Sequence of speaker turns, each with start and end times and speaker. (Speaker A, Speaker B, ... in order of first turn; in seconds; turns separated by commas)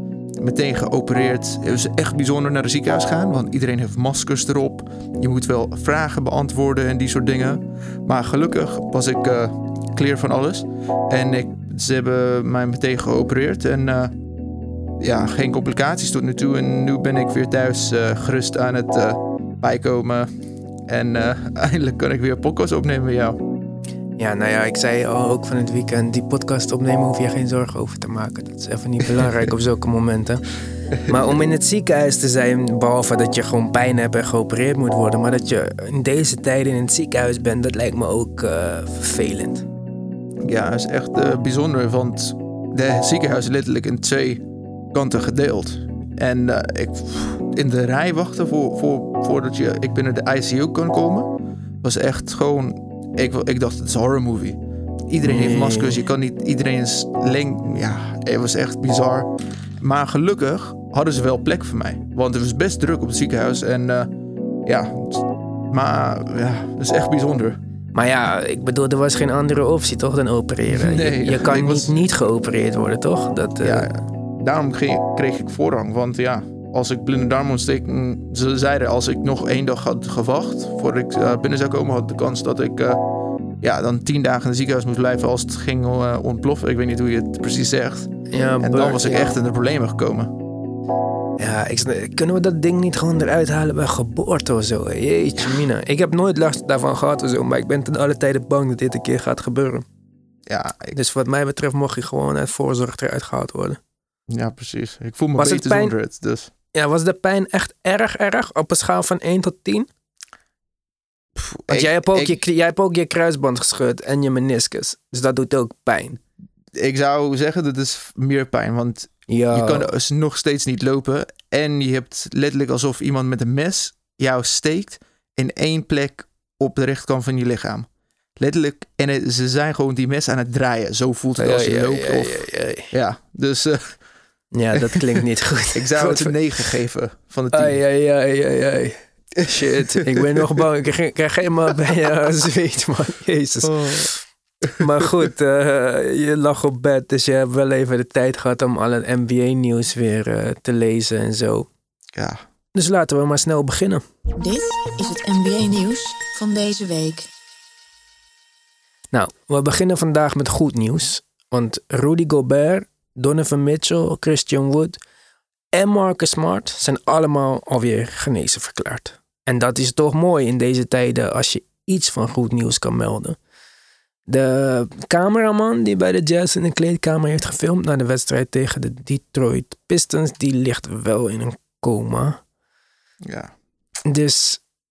Speaker A: 0.4-14.2, Speaker A: 15.0-23.4, Speaker B: 24.2-30.5, Speaker B: 31.0-39.7, Speaker A: 40.4-64.1, Speaker B: 55.2-56.0, Speaker A: 64.7-67.6, Speaker B: 67.9-73.9, Speaker A: 70.7-72.0, Speaker A: 73.6-83.0, Speaker A: 83.6-90.3, Speaker B: 88.3-89.3, Speaker B: 91.4-99.8, Speaker A: 100.5-101.0, Speaker B: 100.9-103.8, Speaker A: 104.3-106.5, Speaker B: 105.4-106.0, Speaker B: 106.7-109.9, Speaker A: 111.4-112.4, Speaker B: 111.7-116.2, Speaker A: 116.8-134.0, Speaker B: 119.3-119.9, Speaker B: 131.4-132.9, Speaker B: 134.5-136.4, Speaker A: 134.8-135.2, Speaker A: 135.8-137.8, Speaker B: 137.5-144.2, Speaker A: 143.6-144.1, Speaker A: 144.8-145.1, Speaker B: 144.8-151.7, Speaker A: 152.2-152.4, Speaker B: 152.8-154.0, Speaker C: 154.4-157.3, Speaker B: 159.1-165.0, Speaker B: 165.7-173.4, Speaker B: 174.3-182.4, Speaker A: 183.2-183.5, Speaker B: 184.1-184.6